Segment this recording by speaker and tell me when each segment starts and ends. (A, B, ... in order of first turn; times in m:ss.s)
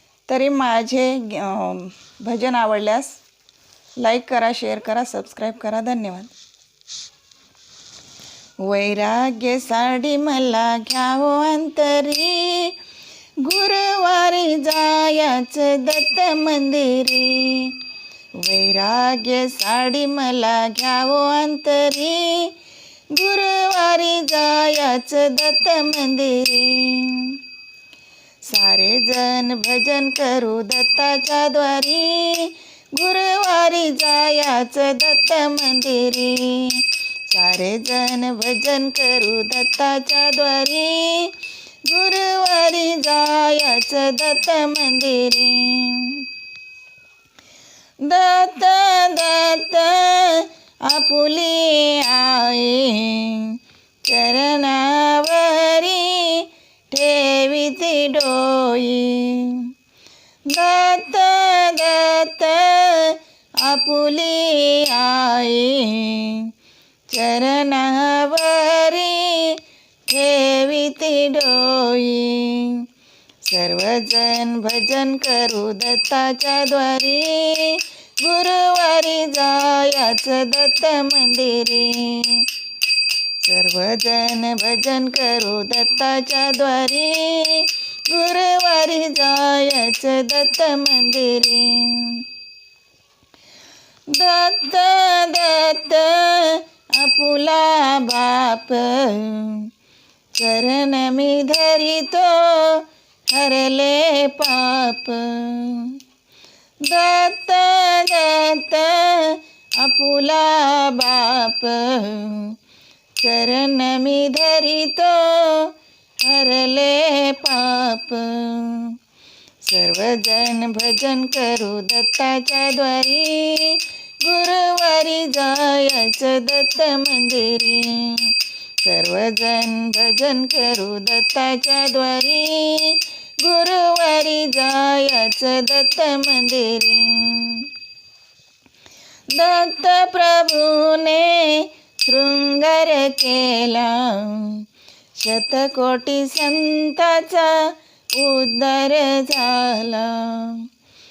0:00.3-0:03.2 A
0:04.0-0:06.3 A
0:08.6-0:12.8 A
0:13.4-0:17.8 A
0:18.4-0:22.5 A
0:23.1-0:27.4 A
0:28.5-0:41.3 A
0:41.8-0:46.2 A
0:48.0-0:59.7 A
1:00.5-1:06.5 A
1:07.1-1:12.8 A
1:13.4-1:22.5 A
1:23.4-1:32.2 A
1:34.1-1:39.7 A
1:40.3-1:46.0 A
1:46.8-1:52.6 A
1:53.2-1:55.7 A
1:56.2-1:59.0 A
1:59.6-2:08.3 A
2:08.8-2:17.7 A
2:19.3-2:24.6 A
2:25.2-2:30.6 A